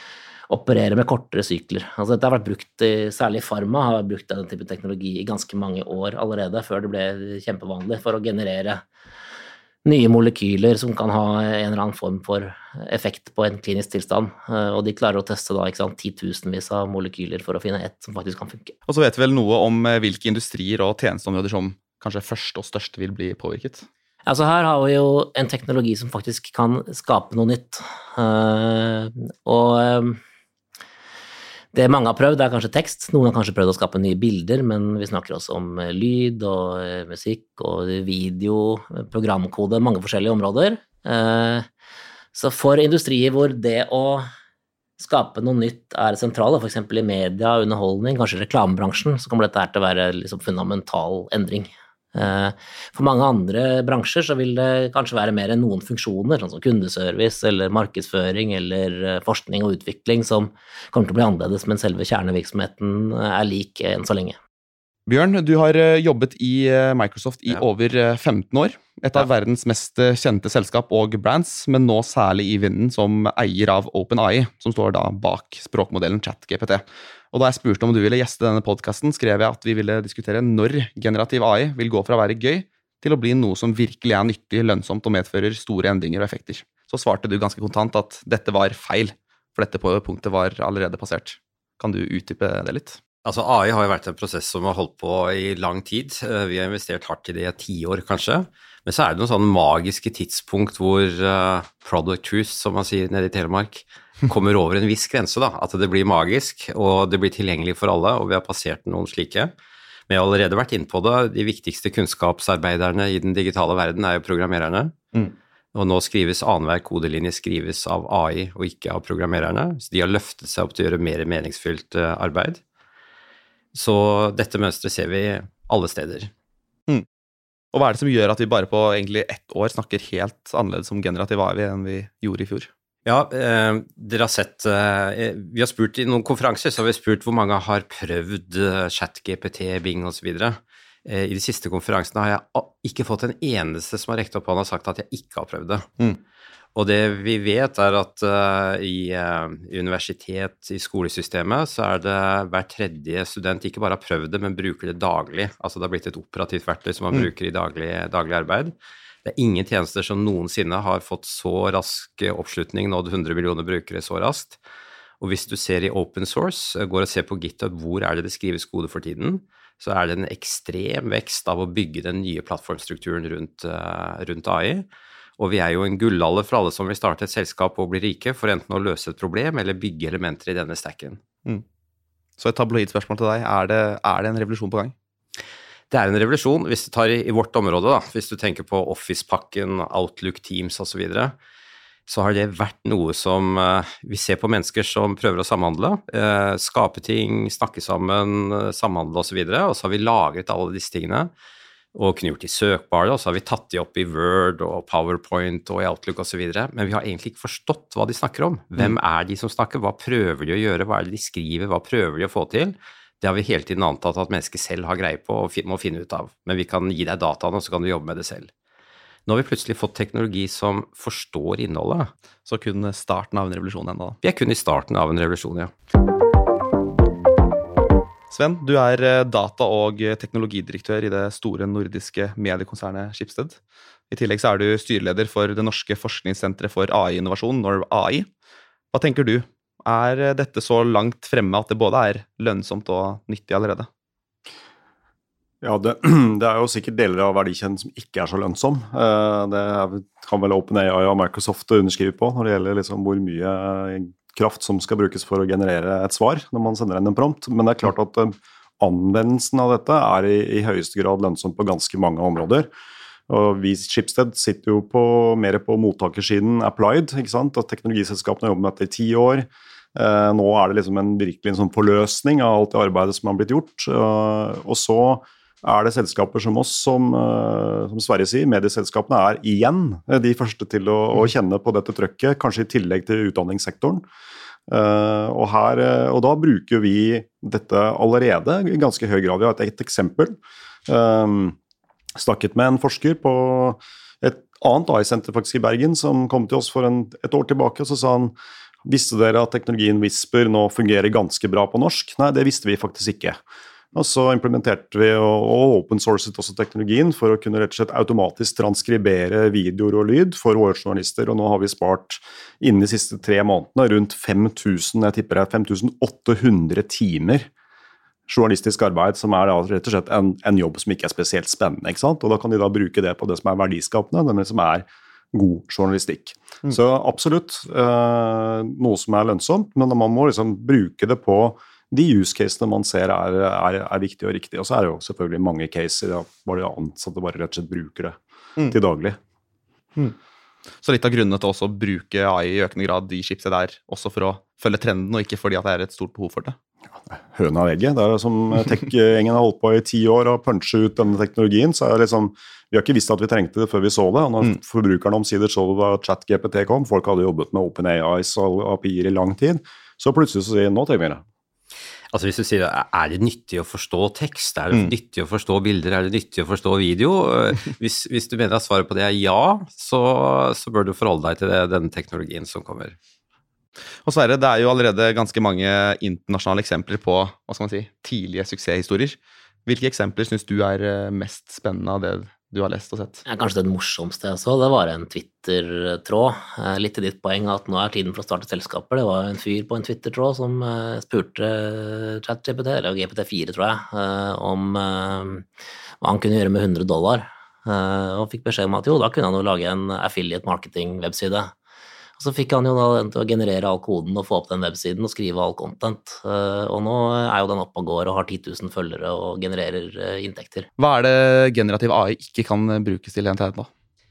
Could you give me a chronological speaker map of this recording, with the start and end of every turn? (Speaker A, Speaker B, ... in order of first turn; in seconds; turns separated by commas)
Speaker A: 0.5-8.8, Speaker A: 9.8-18.7, Speaker B: 18.9-23.9, Speaker A: 24.3-30.2, Speaker A: 31.7-41.6, Speaker A: 42.3-44.3, Speaker A: 45.0-64.4, Speaker B: 65.0-93.0, Speaker C: 93.2-109.5, Speaker C: 110.1-115.0, Speaker C: 115.7-122.6, Speaker C: 123.7-126.3, Speaker B: 127.7-132.7, Speaker C: 133.1-146.0, Speaker C: 146.7-158.7, Speaker C: 159.2-164.6, Speaker C: 165.2-174.8, Speaker C: 175.4-181.2, Speaker B: 182.4-184.9, Speaker C: 185.9-191.3, Speaker C: 192.1-201.3, Speaker C: 201.9-218.5, Speaker C: 219.2-222.1, Speaker B: 222.4-224.2, Speaker C: 224.2-225.7, Speaker B: 228.3-233.6, Speaker B: 234.1-238.3, Speaker B: 238.9-243.9, Speaker D: 245.6-262.7, Speaker D: 263.3-284.0, Speaker D: 284.7-290.4, Speaker D: 290.9-291.6, Speaker D: 292.1-303.4, Speaker D: 303.9-317.5, Speaker D: 318.3-339.2, Speaker B: 340.8-346.6, Speaker D: 347.1-361.2, Speaker C: 362.1-372.9, Speaker B: 374.0-383.2, Speaker A: 383.3-395.4, Speaker A: 396.0-401.5, Speaker A: 402.2-410.7, Speaker B: 410.8-413.7